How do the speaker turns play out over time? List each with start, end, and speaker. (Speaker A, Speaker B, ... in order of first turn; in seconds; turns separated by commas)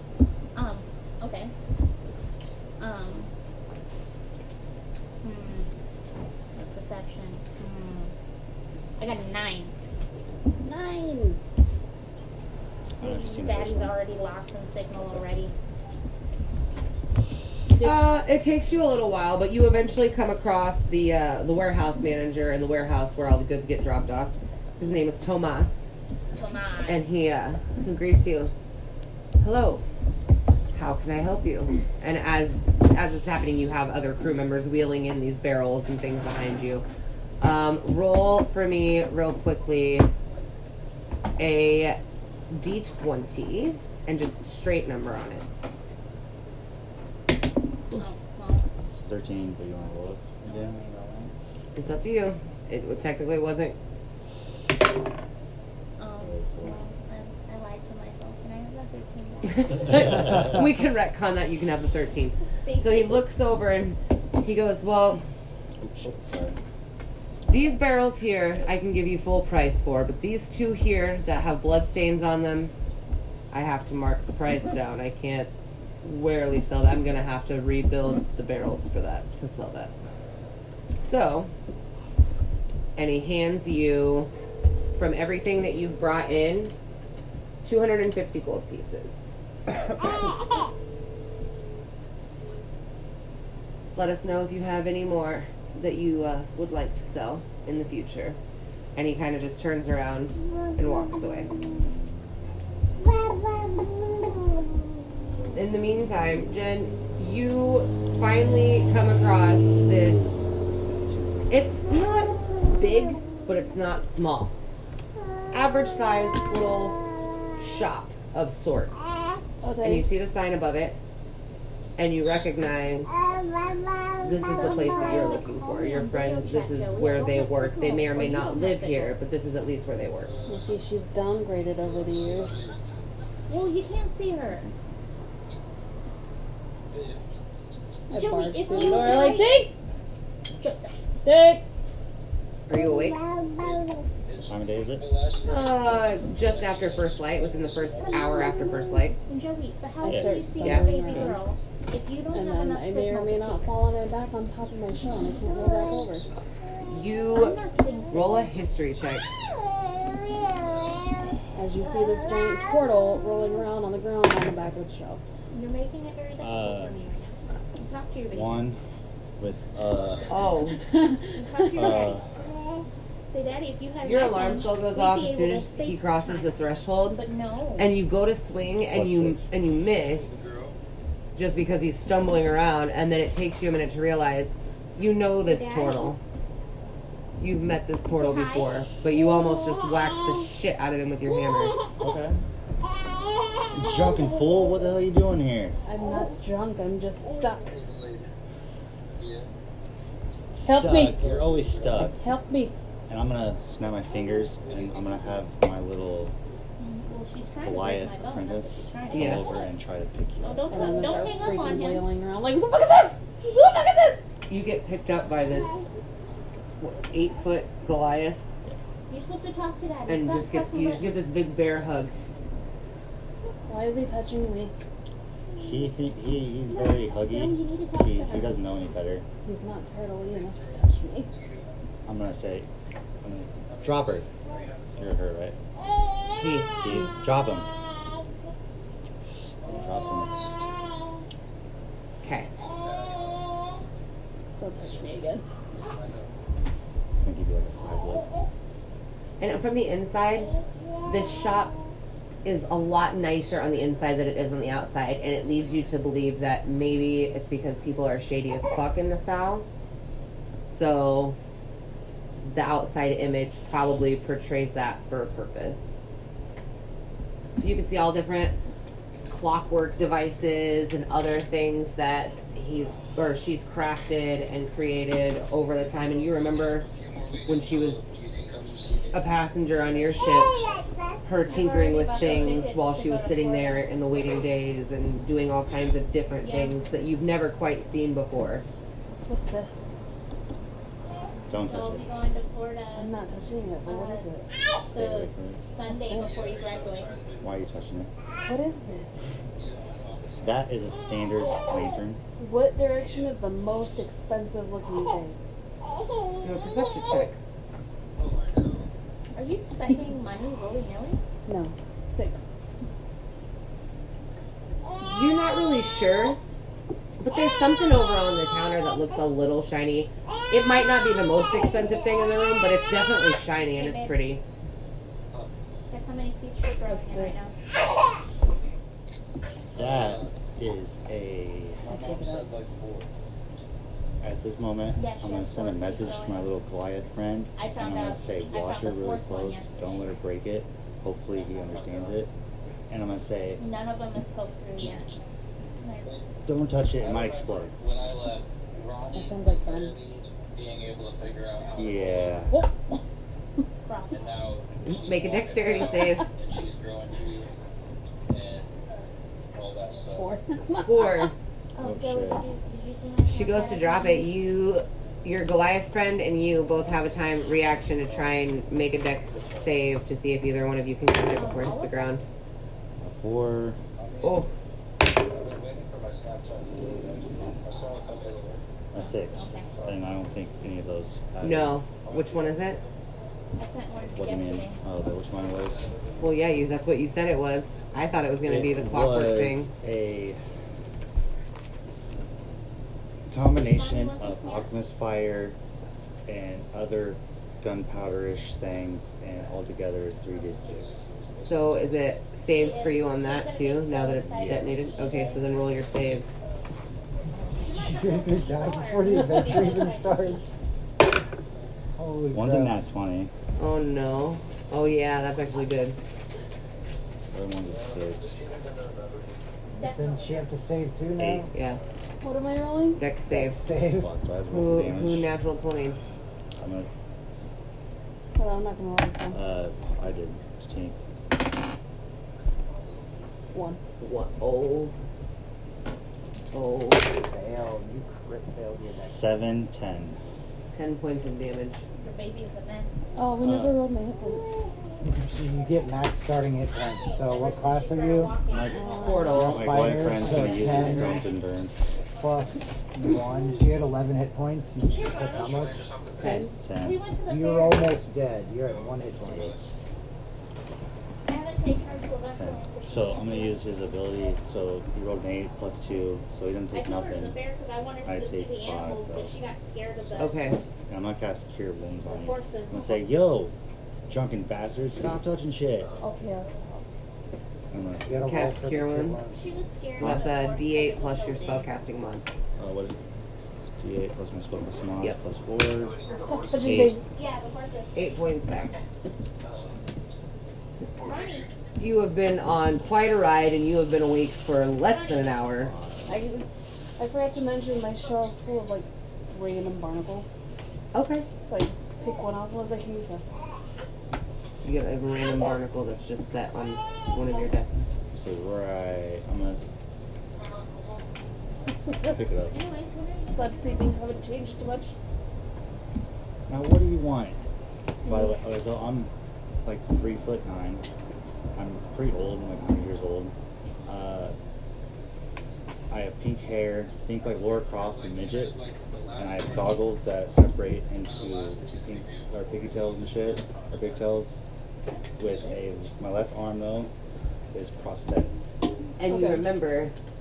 Speaker A: 0.5-1.5, Speaker A: 2.8-3.3, Speaker A: 5.2-5.7, Speaker A: 6.5-8.1, Speaker A: 9.0-9.7, Speaker B: 10.6-11.4, Speaker C: 13.0-14.0, Speaker A: 13.0-15.5, Speaker D: 17.8-25.9, Speaker A: 26.3-27.2, Speaker D: 26.8-28.5, Speaker D: 29.4-29.8, Speaker D: 30.7-36.8, Speaker D: 37.4-40.1, Speaker D: 41.4-42.0, Speaker D: 42.5-45.5, Speaker A: 47.9-48.6, Speaker C: 48.9-51.3, Speaker A: 50.4-51.2, Speaker D: 51.7-53.8, Speaker A: 56.0-60.0, Speaker C: 56.2-56.8, Speaker D: 59.5-65.2, Speaker A: 62.6-63.2, Speaker C: 65.8-66.6, Speaker D: 67.5-72.7, Speaker D: 73.5-75.5, Speaker D: 76.0-79.9, Speaker D: 81.0-81.5, Speaker D: 83.0-84.3, Speaker D: 85.0-86.7, Speaker D: 87.6-89.2, Speaker D: 93.9-98.4, Speaker D: 98.9-101.5, Speaker D: 105.5-110.4, Speaker D: 111.5-114.5, Speaker D: 115.5-117.0, Speaker D: 117.6-119.1, Speaker B: 119.6-120.1, Speaker D: 119.8-121.0, Speaker D: 122.0-123.1, Speaker D: 124.2-130.3, Speaker A: 124.4-129.2, Speaker B: 124.5-125.3, Speaker E: 130.2-131.0, Speaker B: 130.5-132.6, Speaker E: 131.7-132.9, Speaker A: 133.5-134.7, Speaker E: 136.9-137.2, Speaker B: 138.1-139.7, Speaker A: 138.1-139.6, Speaker A: 140.6-140.9, Speaker B: 141.2-141.6, Speaker D: 142.7-143.2, Speaker E: 143.6-148.6, Speaker C: 144.5-145.0, Speaker D: 145.4-149.2, Speaker A: 149.3-153.7, Speaker B: 150.0-151.4, Speaker C: 150.0-150.4, Speaker D: 150.6-150.9, Speaker B: 152.3-156.2, Speaker D: 156.8-157.6, Speaker A: 157.3-158.6, Speaker D: 158.1-159.2, Speaker B: 161.5-165.2, Speaker A: 165.5-168.6, Speaker C: 166.4-166.9, Speaker C: 168.3-168.8, Speaker C: 169.4-170.3, Speaker E: 169.9-170.3, Speaker D: 170.3-170.8, Speaker B: 170.9-172.1, Speaker A: 171.3-172.2, Speaker C: 171.7-172.3, Speaker A: 173.2-177.9, Speaker D: 174.0-177.2, Speaker D: 177.8-180.4, Speaker C: 178.9-179.5, Speaker E: 180.0-180.8, Speaker D: 181.3-186.2, Speaker A: 185.4-186.1, Speaker D: 187.4-191.8, Speaker A: 188.1-188.8, Speaker C: 192.0-192.4, Speaker C: 193.7-195.7, Speaker B: 195.8-197.7, Speaker E: 197.2-198.3, Speaker E: 199.1-199.5, Speaker C: 200.5-202.2, Speaker B: 200.6-201.2, Speaker E: 200.9-202.1, Speaker B: 202.1-202.7, Speaker C: 203.1-206.3, Speaker E: 204.6-205.4, Speaker A: 206.8-209.6, Speaker C: 207.6-211.2, Speaker D: 209.1-209.4, Speaker A: 210.4-212.1, Speaker B: 210.7-214.2, Speaker D: 214.5-215.8, Speaker D: 216.8-218.4, Speaker A: 219.1-221.3, Speaker D: 220.1-222.1, Speaker B: 223.7-224.7, Speaker C: 225.5-229.2, Speaker A: 226.7-228.6, Speaker B: 229.4-231.3, Speaker E: 230.2-231.7, Speaker C: 232.1-232.7, Speaker C: 233.2-234.2, Speaker E: 233.7-235.2, Speaker C: 235.0-235.6, Speaker D: 236.4-236.7, Speaker C: 236.8-237.7, Speaker C: 239.6-240.5, Speaker E: 239.6-239.9, Speaker D: 242.2-242.5, Speaker E: 242.7-243.5, Speaker B: 244.6-245.4, Speaker E: 244.8-245.3, Speaker E: 245.8-246.3, Speaker C: 247.2-248.2, Speaker D: 249.4-251.7, Speaker D: 252.4-259.6, Speaker E: 253.5-253.9, Speaker E: 255.5-255.9, Speaker D: 260.6-261.4, Speaker D: 262.4-265.9, Speaker D: 267.6-268.6, Speaker D: 269.3-276.9, Speaker E: 276.0-279.5, Speaker D: 277.4-278.1, Speaker D: 279.1-280.6, Speaker D: 281.2-288.6, Speaker A: 281.5-283.9, Speaker E: 285.6-286.0, Speaker A: 286.4-286.8, Speaker B: 289.2-289.9, Speaker C: 291.5-292.1, Speaker A: 291.6-293.2, Speaker B: 293.0-294.5, Speaker A: 293.9-294.3, Speaker C: 294.8-295.6, Speaker A: 294.9-297.2, Speaker B: 295.9-296.4, Speaker E: 296.2-297.7, Speaker C: 297.4-298.1, Speaker B: 298.4-299.2, Speaker E: 299.6-300.6, Speaker C: 300.4-302.2, Speaker B: 302.4-305.4, Speaker E: 302.9-303.8, Speaker D: 306.4-307.4, Speaker E: 308.1-308.9, Speaker A: 309.3-311.2, Speaker B: 311.4-312.4, Speaker D: 315.0-316.4, Speaker D: 317.2-324.4, Speaker A: 323.7-324.2, Speaker A: 325.9-327.5, Speaker B: 326.9-327.4, Speaker E: 329.7-330.3, Speaker C: 329.7-331.9, Speaker E: 331.8-333.1, Speaker B: 331.9-332.5, Speaker C: 334.2-342.3, Speaker A: 334.9-336.5, Speaker A: 337.6-340.1, Speaker E: 341.3-342.2, Speaker C: 342.9-343.7, Speaker A: 343.6-345.2, Speaker C: 344.8-345.2, Speaker A: 345.8-346.1, Speaker E: 346.0-352.5, Speaker C: 346.4-347.7, Speaker B: 349.1-349.9, Speaker C: 351.8-352.5, Speaker A: 353.8-354.3, Speaker E: 354.1-357.5, Speaker D: 354.9-356.3, Speaker E: 358.3-358.7, Speaker E: 359.5-360.3, Speaker B: 360.1-361.3, Speaker D: 360.8-361.3, Speaker A: 361.7-364.3, Speaker C: 361.8-362.4, Speaker D: 363.2-372.2, Speaker A: 371.3-372.1, Speaker C: 373.0-373.8, Speaker E: 374.0-374.4, Speaker D: 374.2-374.5, Speaker E: 375.2-378.6, Speaker C: 378.9-381.8, Speaker A: 379.2-379.7, Speaker E: 379.7-380.0, Speaker D: 381.4-382.8, Speaker E: 381.9-382.9, Speaker A: 383.6-384.8, Speaker C: 384.1-385.9, Speaker E: 385.5-386.3, Speaker D: 386.2-389.7, Speaker C: 388.4-390.4, Speaker C: 393.3-395.6, Speaker A: 393.5-394.7, Speaker C: 396.2-401.0, Speaker E: 400.6-401.9, Speaker D: 401.4-406.3, Speaker A: 402.5-405.5, Speaker C: 404.1-405.0, Speaker A: 407.3-410.5, Speaker F: 407.7-410.6, Speaker F: 412.0-412.8, Speaker C: 412.3-413.3, Speaker D: 413.6-415.9, Speaker C: 417.3-418.4, Speaker E: 417.7-419.4, Speaker A: 419.7-420.4, Speaker F: 419.8-421.5, Speaker C: 421.2-421.4, Speaker D: 421.5-421.8, Speaker B: 422.2-423.0, Speaker D: 422.9-423.6, Speaker F: 423.3-424.1, Speaker C: 424.0-425.3, Speaker D: 424.5-426.0, Speaker C: 426.6-426.9, Speaker B: 428.3-429.4, Speaker C: 429.3-430.9, Speaker E: 432.8-433.2, Speaker B: 433.5-433.8, Speaker D: 434.0-434.9, Speaker D: 436.5-437.1, Speaker F: 437.2-439.4, Speaker C: 438.9-440.2, Speaker D: 440.7-441.8, Speaker A: 442.0-443.1, Speaker B: 443.1-444.6, Speaker C: 443.4-443.8, Speaker F: 445.0-448.4, Speaker A: 446.9-450.0, Speaker C: 448.5-451.9, Speaker B: 448.6-449.4, Speaker D: 449.0-451.3, Speaker F: 449.3-451.2, Speaker F: 452.1-455.9, Speaker E: 454.9-456.5, Speaker A: 454.9-455.6, Speaker D: 456.2-456.5, Speaker B: 456.2-456.5, Speaker C: 456.6-457.0, Speaker A: 456.8-458.0, Speaker F: 457.2-459.6, Speaker E: 458.6-459.7, Speaker C: 459.3-459.6, Speaker A: 461.3-463.7, Speaker C: 462.3-467.4, Speaker A: 466.7-470.4, Speaker C: 468.0-469.3, Speaker D: 470.2-470.6, Speaker C: 470.9-473.5, Speaker A: 472.1-473.0, Speaker C: 474.1-475.9, Speaker B: 476.0-476.8, Speaker C: 477.7-478.2, Speaker F: 478.0-479.6, Speaker D: 478.2-479.2, Speaker A: 479.3-481.7, Speaker D: 480.0-482.3, Speaker C: 480.0-480.2, Speaker C: 482.6-483.0, Speaker C: 483.8-485.9, Speaker E: 485.7-486.9, Speaker B: 486.1-487.0, Speaker C: 486.6-487.0, Speaker A: 487.1-488.0, Speaker D: 487.9-488.8, Speaker E: 489.4-489.8, Speaker E: 491.0-491.5, Speaker A: 491.0-491.5, Speaker D: 491.8-495.7, Speaker A: 494.9-495.4, Speaker C: 495.6-496.2, Speaker B: 496.1-496.4, Speaker B: 497.0-500.3, Speaker D: 500.9-501.2, Speaker B: 501.4-503.2, Speaker D: 504.6-507.9, Speaker C: 508.1-509.7, Speaker C: 512.0-512.5, Speaker A: 512.5-513.9, Speaker B: 513.3-514.9, Speaker C: 516.5-517.4, Speaker C: 518.0-519.1, Speaker B: 518.0-518.4, Speaker C: 519.6-520.8, Speaker C: 521.5-523.3, Speaker C: 523.9-524.3, Speaker C: 525.9-528.5, Speaker E: 527.2-529.9, Speaker C: 529.1-534.4, Speaker E: 531.0-534.1, Speaker A: 534.9-535.6, Speaker C: 535.2-536.9, Speaker C: 537.5-538.4, Speaker D: 539.0-539.9, Speaker B: 539.1-539.5